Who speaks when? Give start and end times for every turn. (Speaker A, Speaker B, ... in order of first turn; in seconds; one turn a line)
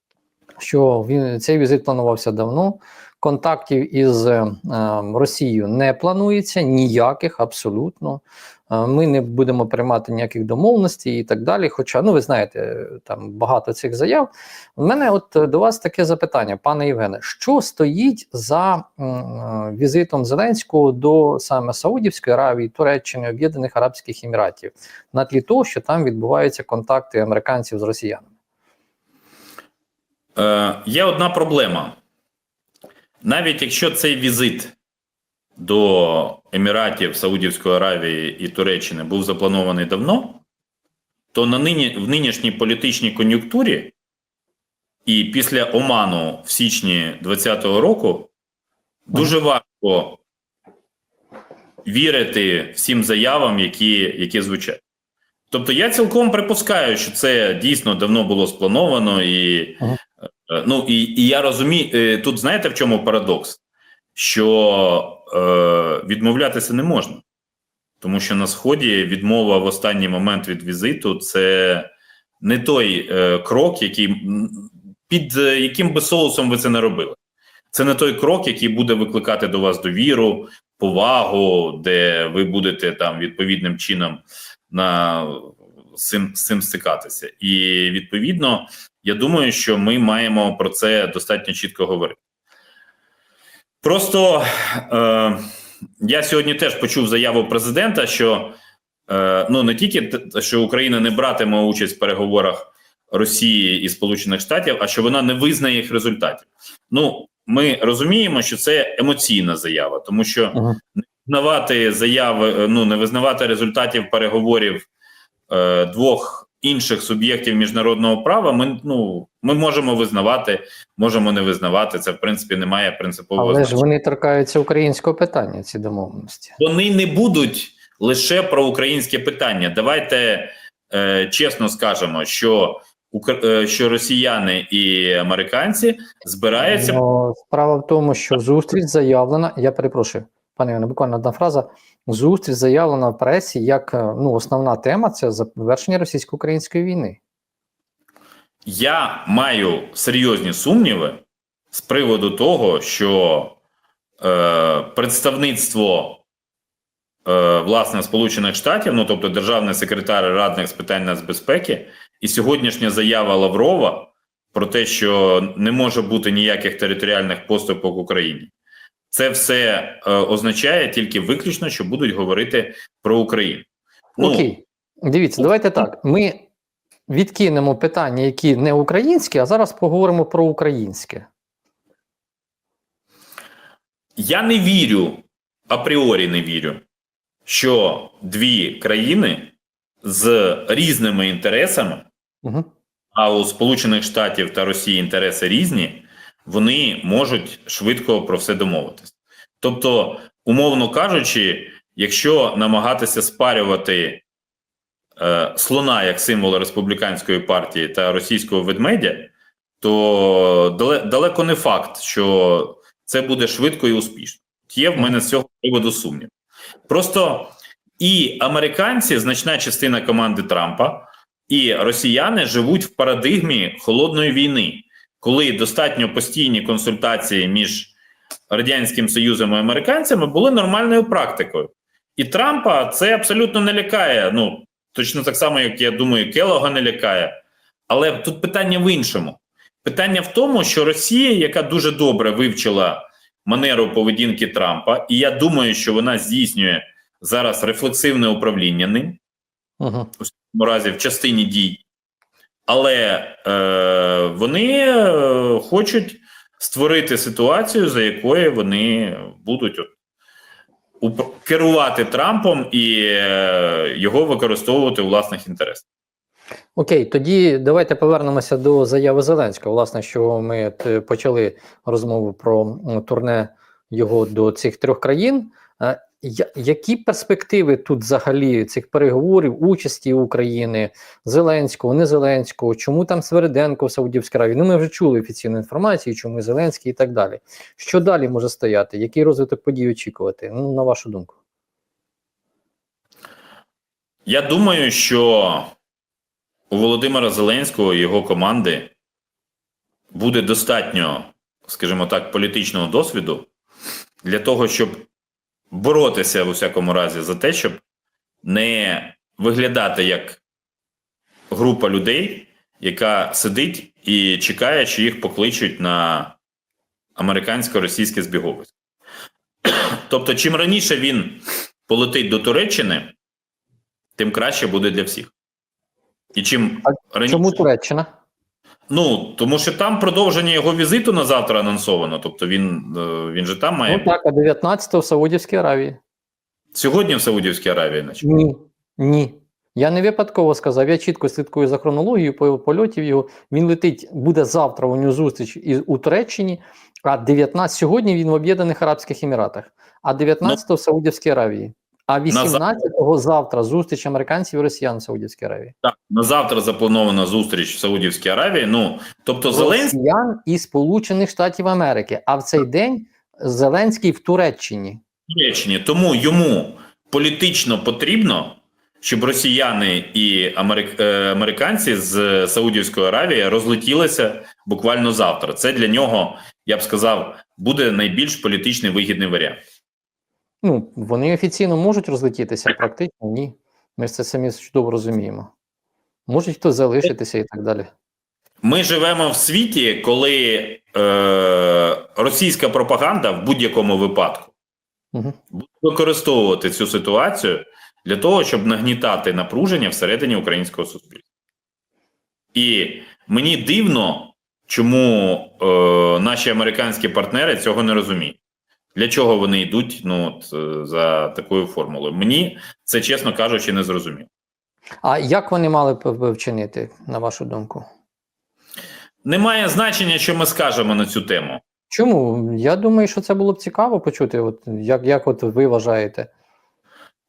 Speaker A: 0.6-28.3
Speaker B: 30.4-32.0
Speaker B: 33.2-34.8
Speaker B: 35.6-40.4
Speaker B: 41.3-43.9
Speaker B: 45.0-48.3
Speaker B: 49.1-50.2
Speaker B: 51.9-54.8
Speaker B: 55.5-59.8
Speaker B: 60.5-63.6
Speaker B: 64.2-67.2
Speaker B: 68.0-71.9
Speaker B: 72.4-77.2
Speaker B: 77.7-92.2
Speaker B: 93.8-95.4
Speaker B: 96.0-98.6
Speaker B: 99.1-114.9
Speaker B: 115.5-123.9
Speaker A: 123.4-126.6
Speaker B: 126.6-137.0
Speaker A: 136.7-147.2
Speaker B: 148.7-153.6
Speaker B: 154.2-156.2
Speaker B: 157.2-168.5
Speaker B: 169.1-173.7
Speaker B: 174.2-174.5
Speaker A: 174.2-176.5
Speaker A: 177.1-181.3
Speaker B: 184.2-186.8
Speaker B: 187.5-192.1
Speaker A: 192.4-192.7
Speaker B: 193.2-204.2
Speaker B: 205.2-216.3
Speaker B: 216.9-227.9
Speaker B: 228.5-237.4
Speaker B: 237.9-249.2
Speaker A: 249.8-250.1
Speaker B: 250.2-251.8
Speaker B: 252.7-259.9
Speaker B: 261.0-265.9
Speaker A: 266.8-291.4
Speaker B: 294.3-295.7
Speaker B: 296.7-298.9
Speaker B: 300.1-303.5
Speaker B: 304.2-305.1
Speaker B: 305.7-307.8
Speaker B: 308.4-310.4
Speaker B: 311.5-316.4
Speaker B: 317.2-318.7
Speaker B: 319.6-323.1
Speaker B: 324.2-325.3
Speaker B: 326.3-327.6
Speaker A: 326.9-328.1
Speaker B: 328.9-334.1
Speaker A: 333.9-336.0
Speaker B: 336.7-338.2
Speaker A: 338.2-355.8
Speaker B: 352.3-352.6
Speaker B: 355.8-360.0
Speaker A: 359.5-365.0
Speaker B: 365.3-379.6
Speaker A: 380.6-385.5
Speaker A: 386.3-387.9
Speaker B: 388.6-394.5
Speaker B: 395.5-401.2
Speaker B: 402.5-408.4
Speaker B: 408.9-414.3
Speaker A: 415.0-417.9
Speaker B: 419.2-421.6
Speaker A: 421.9-426.3